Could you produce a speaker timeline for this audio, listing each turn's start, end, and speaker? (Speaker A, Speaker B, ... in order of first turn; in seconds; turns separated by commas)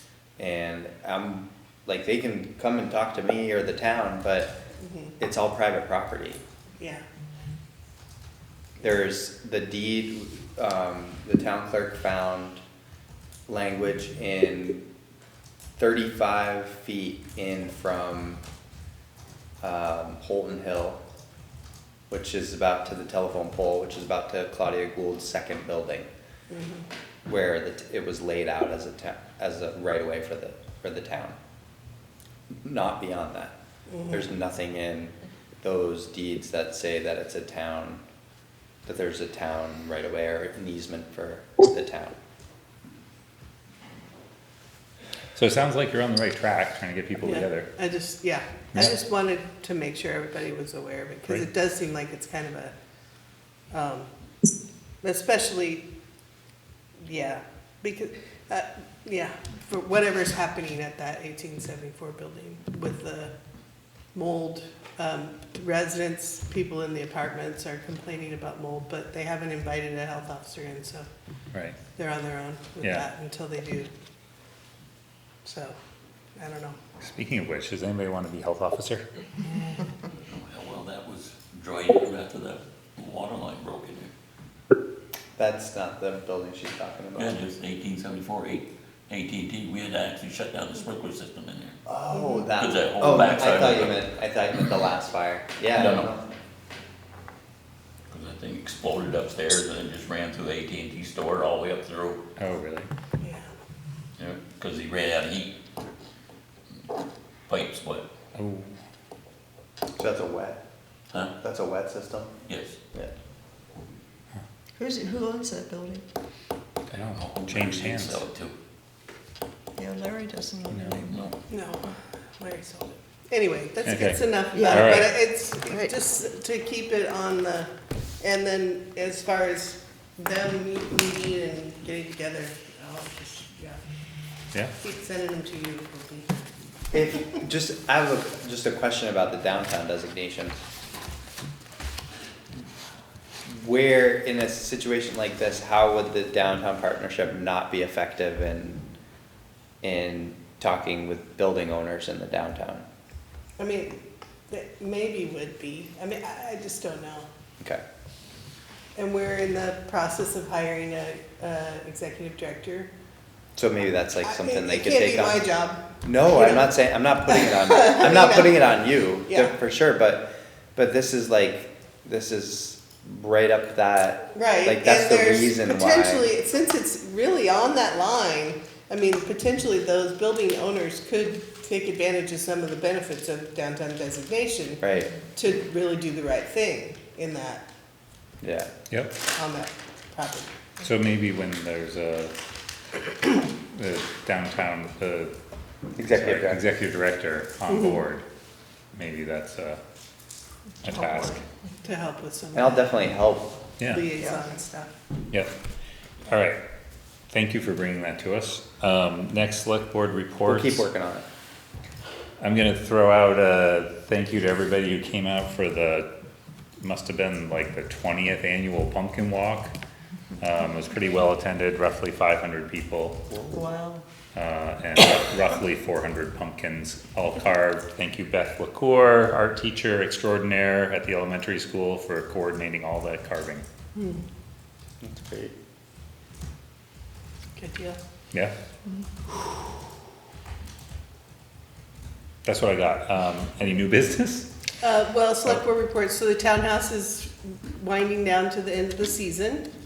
Speaker A: 0.4-4.5, Speaker B: 4.8-5.1, Speaker A: 5.2-6.4, Speaker A: 8.8-12.6, Speaker A: 13.5-14.8, Speaker A: 15.8-18.4, Speaker A: 19.6-21.0, Speaker A: 22.1-26.1, Speaker B: 26.5-26.8, Speaker A: 27.2-31.4, Speaker A: 32.6-33.5, Speaker B: 33.9-34.3, Speaker A: 34.1-38.0, Speaker A: 38.9-42.2, Speaker C: 45.4-47.7, Speaker B: 47.2-52.7, Speaker B: 53.7-54.1, Speaker B: 55.0-55.8, Speaker B: 57.0-63.3, Speaker B: 64.1-71.0, Speaker C: 71.5-71.8, Speaker B: 72.0-73.9, Speaker C: 72.8-73.1, Speaker B: 75.4-75.7, Speaker B: 76.4-76.8, Speaker C: 77.0-79.0, Speaker D: 80.0-84.1, Speaker A: 85.3-87.4, Speaker D: 87.1-91.8, Speaker A: 91.8-96.3, Speaker D: 92.6-94.0, Speaker D: 95.7-96.1, Speaker D: 98.1-102.2, Speaker C: 102.4-102.9, Speaker B: 103.2-103.5, Speaker D: 104.2-105.5, Speaker D: 107.5-108.1, Speaker C: 108.3-108.8, Speaker A: 110.0-110.6, Speaker A: 111.3-112.3, Speaker D: 112.5-112.8, Speaker E: 114.8-116.0, Speaker C: 116.9-118.2, Speaker D: 116.9-118.5, Speaker E: 119.8-121.2, Speaker C: 120.7-121.1, Speaker D: 121.1-121.3, Speaker B: 121.5-127.7, Speaker C: 123.8-125.2, Speaker E: 124.5-125.1, Speaker E: 125.6-125.9, Speaker B: 128.2-133.8, Speaker B: 134.8-136.3, Speaker A: 136.9-140.6, Speaker A: 143.4-148.9, Speaker A: 149.8-152.8, Speaker B: 153.6-157.3, Speaker B: 158.9-162.9, Speaker A: 163.6-165.4, Speaker B: 164.2-166.7, Speaker A: 166.0-176.3, Speaker B: 167.2-168.6, Speaker B: 169.3-169.5, Speaker B: 174.3-184.8, Speaker A: 184.8-185.1, Speaker B: 185.3-187.7, Speaker A: 188.4-188.7, Speaker C: 188.9-189.1, Speaker B: 189.3-190.7, Speaker C: 190.8-192.3, Speaker C: 193.3-195.3, Speaker A: 196.0-196.6, Speaker C: 196.1-198.2, Speaker C: 198.9-199.8, Speaker C: 200.8-201.4, Speaker B: 201.8-202.9, Speaker A: 202.5-203.5, Speaker C: 203.8-204.1, Speaker B: 203.9-204.9, Speaker C: 206.3-206.6, Speaker C: 207.3-210.9, Speaker A: 210.4-211.2, Speaker C: 212.4-216.1, Speaker C: 216.8-219.7, Speaker C: 220.4-223.2, Speaker A: 223.3-223.6, Speaker E: 223.5-224.0, Speaker C: 224.3-233.6, Speaker B: 233.9-234.2, Speaker A: 235.0-235.5, Speaker B: 237.6-238.0, Speaker C: 242.4-244.5, Speaker B: 244.8-249.7